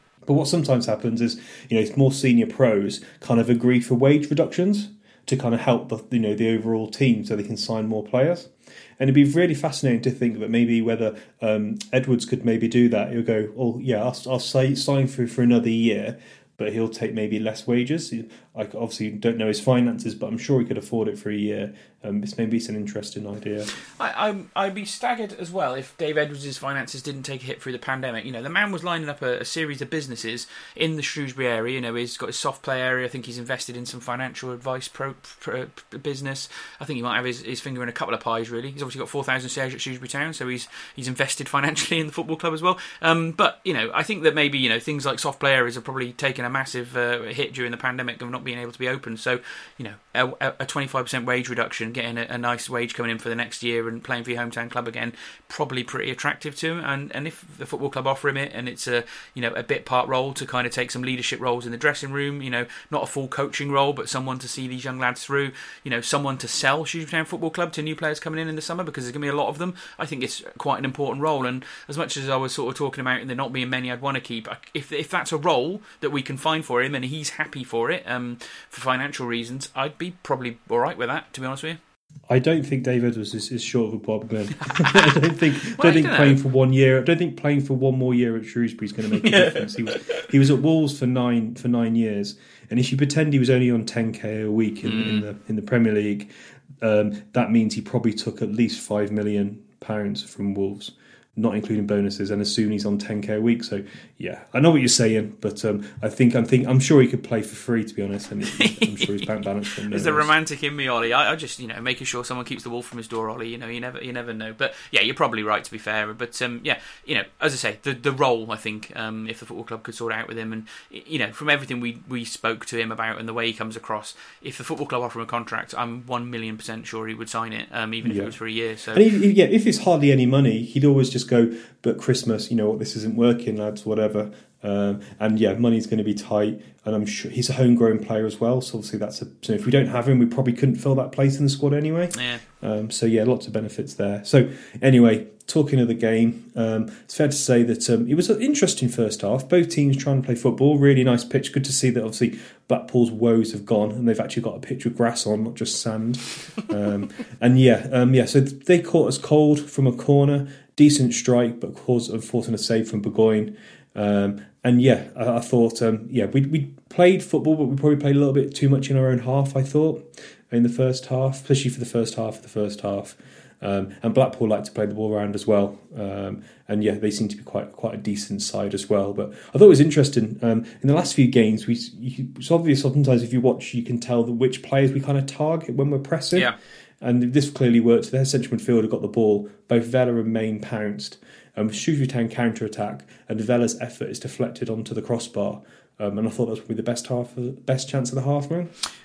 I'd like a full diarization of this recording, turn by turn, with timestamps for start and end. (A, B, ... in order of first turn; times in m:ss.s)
0:00.2-0:23.7 A
0:23.8-1:21.8 B
1:22.3-1:36.3 A
1:24.6-1:26.4 B
1:29.1-1:30.3 B
1:34.8-1:35.3 B
1:36.8-1:50.3 A
1:48.5-2:09.0 B
2:08.0-2:08.3 A
2:08.9-3:18.7 A
2:22.1-2:22.4 B